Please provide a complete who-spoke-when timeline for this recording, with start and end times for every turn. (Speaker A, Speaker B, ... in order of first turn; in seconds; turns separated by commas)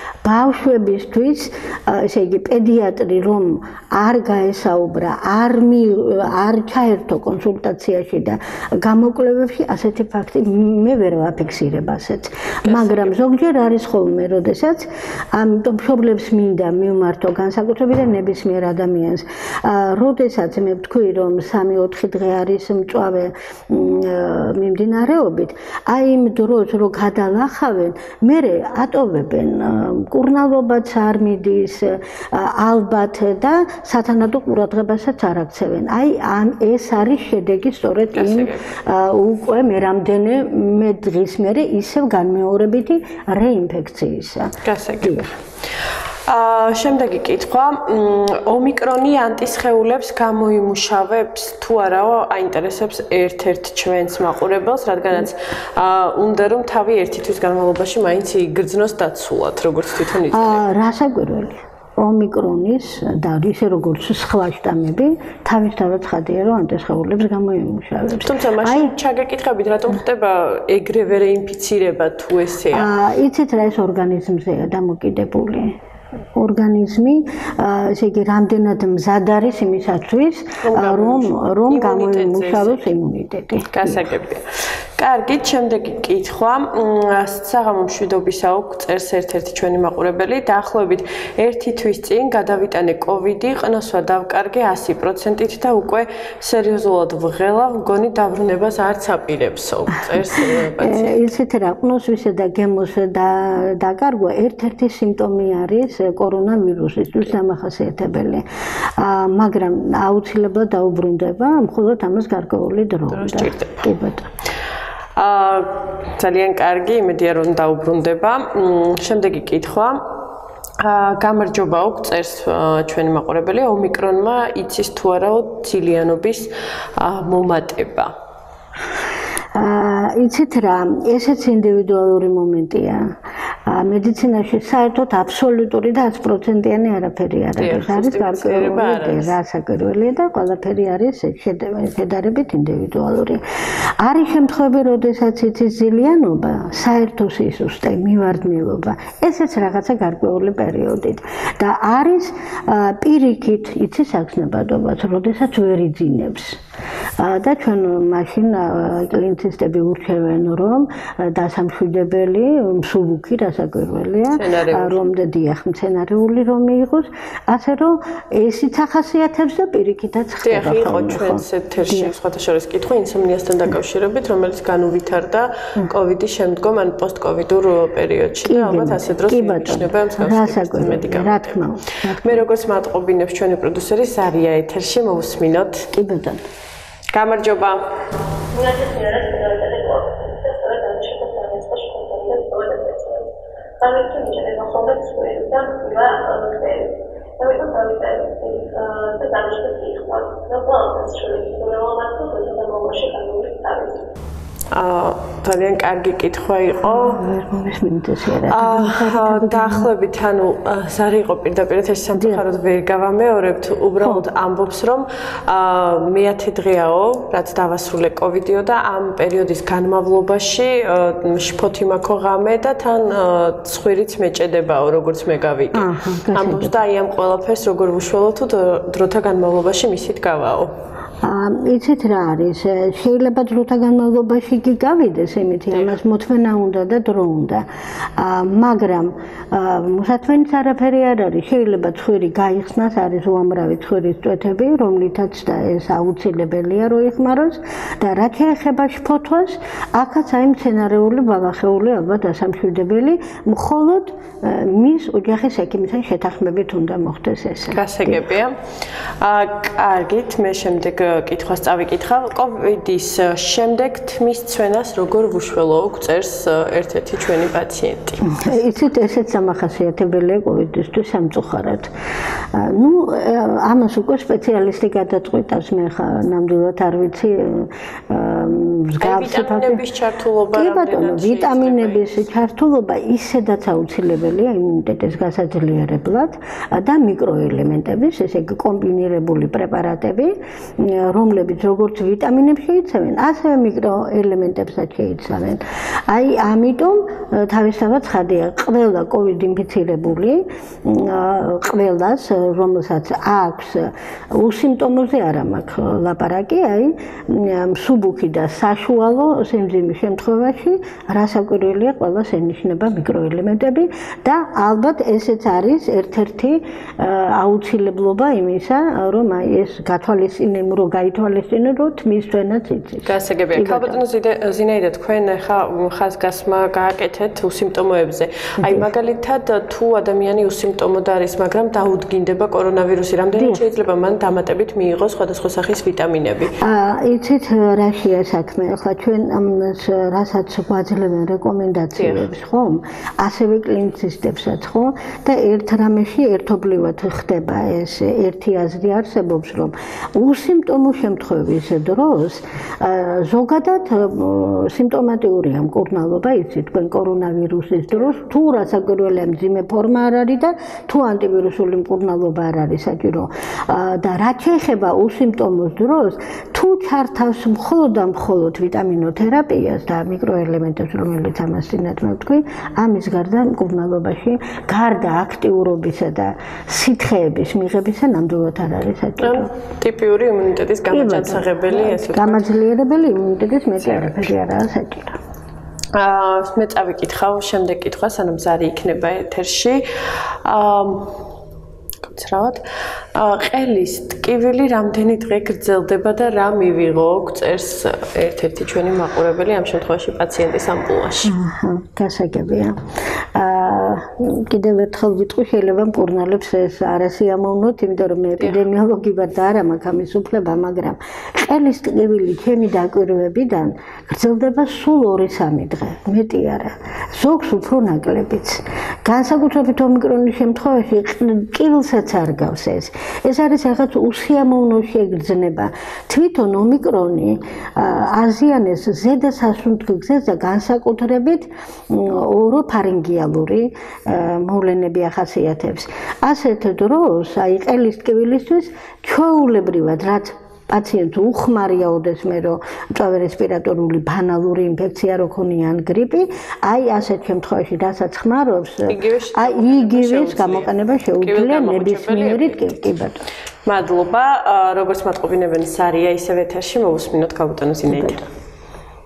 Speaker A: 0.2-45.3, Speaker B: 12.6-13.1, Speaker B: 38.1-38.6, Speaker B: 44.6-45.3, Speaker B: 46.3-60.6, Speaker A: 60.3-68.9, Speaker B: 68.2-72.9, Speaker A: 72.7-75.8, Speaker A: 76.3-84.0, Speaker B: 80.6-82.9, Speaker B: 83.7-101.2, Speaker A: 100.0-108.4, Speaker A: 109.0-114.3, Speaker B: 113.1-113.8, Speaker B: 115.2-120.1, Speaker B: 120.8-128.1, Speaker A: 129.5-143.4, Speaker B: 137.6-139.3, Speaker A: 144.0-156.6, Speaker A: 157.2-172.1, Speaker B: 164.3-165.0, Speaker B: 170.4-181.5, Speaker A: 178.4-182.4, Speaker B: 182.2-185.9, Speaker A: 185.9-186.4, Speaker B: 187.1-187.8, Speaker C: 188.5-193.3, Speaker C: 193.8-204.1, Speaker B: 204.7-207.2, Speaker A: 206.9-209.9, Speaker B: 208.5-230.7, Speaker A: 212.1-212.4, Speaker A: 214.0-214.3, Speaker A: 225.7-226.7, Speaker A: 231.2-237.7, Speaker A: 238.2-258.2, Speaker B: 257.7-258.6, Speaker B: 259.2-268.2, Speaker A: 268.2-271.9, Speaker A: 272.5-279.8, Speaker B: 279.0-282.2, Speaker A: 280.5-324.0, Speaker B: 323.0-336.6, Speaker A: 328.6-328.9, Speaker A: 333.3-333.6, Speaker A: 336.6-379.5, Speaker B: 342.0-342.2, Speaker B: 379.2-382.5, Speaker A: 380.9-385.2, Speaker B: 385.9-389.8, Speaker B: 390.4-391.1, Speaker B: 392.0-392.6, Speaker B: 393.1-401.3, Speaker A: 401.2-402.8, Speaker A: 403.3-453.2, Speaker B: 448.9-452.7, Speaker B: 453.6-458.3, Speaker A: 457.9-458.2